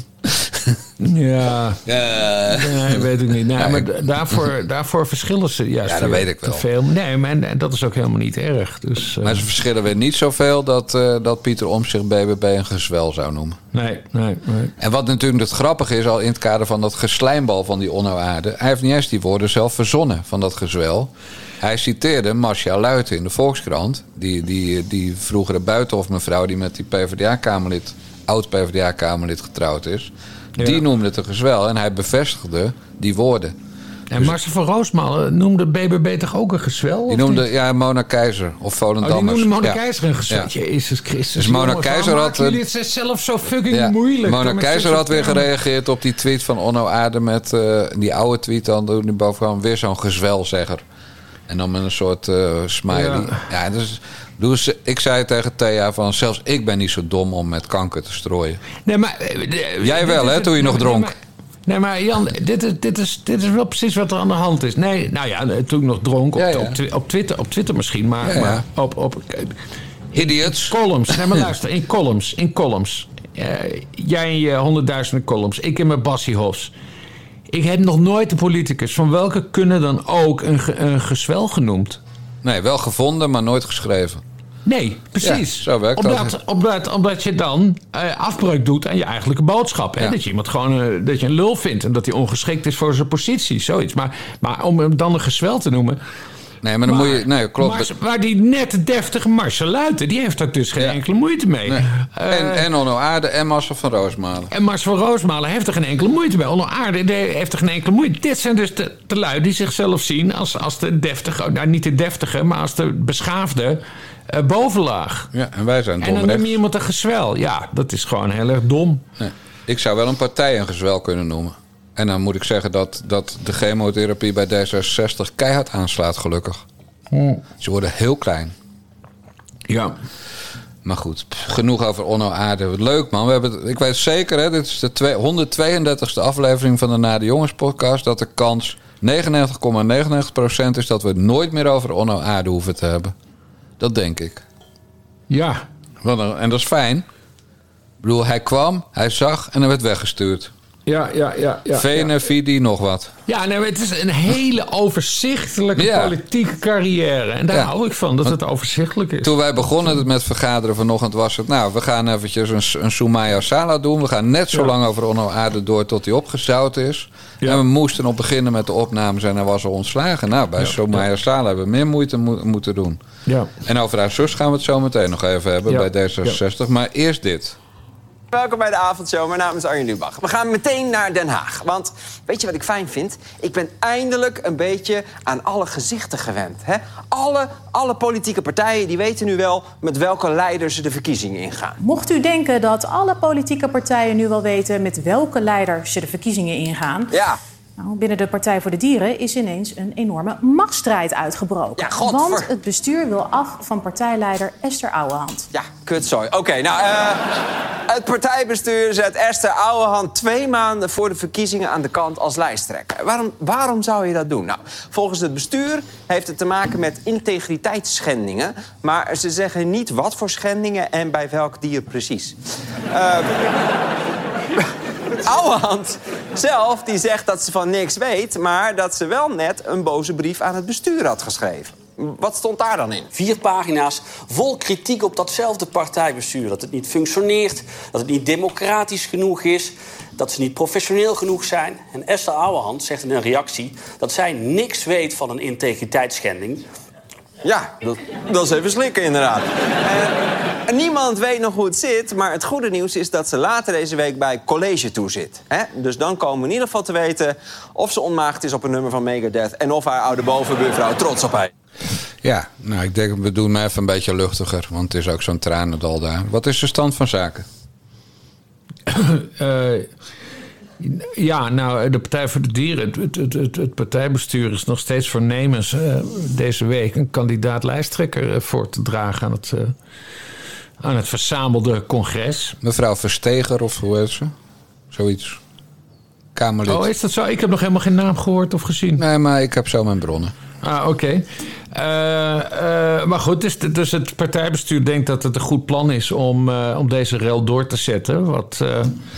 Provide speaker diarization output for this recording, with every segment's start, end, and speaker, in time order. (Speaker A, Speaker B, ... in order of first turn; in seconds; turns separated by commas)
Speaker A: 0.2-0.8, Speaker B: 1.0-1.8, Speaker A: 1.8-3.0, Speaker B: 2.5-9.4, Speaker A: 3.5-3.9, Speaker A: 5.8-6.7, Speaker A: 9.2-13.6, Speaker B: 13.7-14.7, Speaker A: 14.8-33.5, Speaker B: 30.6-30.8, Speaker B: 34.1-37.4, Speaker A: 37.1-40.5, Speaker B: 39.0-45.4, Speaker A: 41.3-42.6, Speaker A: 43.7-50.8, Speaker A: 51.5-58.6, Speaker B: 52.9-53.4, Speaker B: 58.9-69.5, Speaker A: 59.8-61.1, Speaker A: 66.3-66.8, Speaker A: 68.2-68.6, Speaker A: 70.1-71.1, Speaker B: 70.1-76.7, Speaker B: 77.5-82.0, Speaker A: 82.4-84.2, Speaker B: 84.7-96.0, Speaker A: 85.2-86.3, Speaker A: 96.6-97.9, Speaker B: 96.8-102.6, Speaker A: 101.7-104.5, Speaker B: 104.5-115.3, Speaker A: 115.3-116.6, Speaker B: 116.0-119.0, Speaker A: 119.2-126.6, Speaker B: 127.1-127.4, Speaker A: 127.6-128.5, Speaker B: 129.7-129.9, Speaker A: 130.8-143.1, Speaker A: 143.8-144.4, Speaker B: 145.3-145.6, Speaker A: 146.0-147.1, Speaker A: 148.0-150.5, Speaker B: 150.9-152.1, Speaker A: 151.7-153.1, Speaker B: 153.3-159.3, Speaker A: 155.8-156.2, Speaker A: 159.2-173.0, Speaker B: 173.2-173.5, Speaker A: 173.6-177.6, Speaker B: 175.7-176.4, Speaker C: 178.3-191.8, Speaker D: 191.8-197.1, Speaker C: 197.1-197.4, Speaker D: 197.8-205.5, Speaker C: 201.8-202.5, Speaker C: 205.5-222.3, Speaker C: 222.9-223.5, Speaker C: 225.2-233.1, Speaker E: 233.1-246.6, Speaker C: 247.4-261.5, Speaker A: 262.2-267.5, Speaker B: 268.9-269.9, Speaker B: 270.8-279.7, Speaker B: 280.8-282.6, Speaker A: 282.6-284.3, Speaker A: 284.9-285.4, Speaker A: 286.3-286.9, Speaker B: 286.6-289.0, Speaker A: 288.9-290.3, Speaker B: 290.6-298.9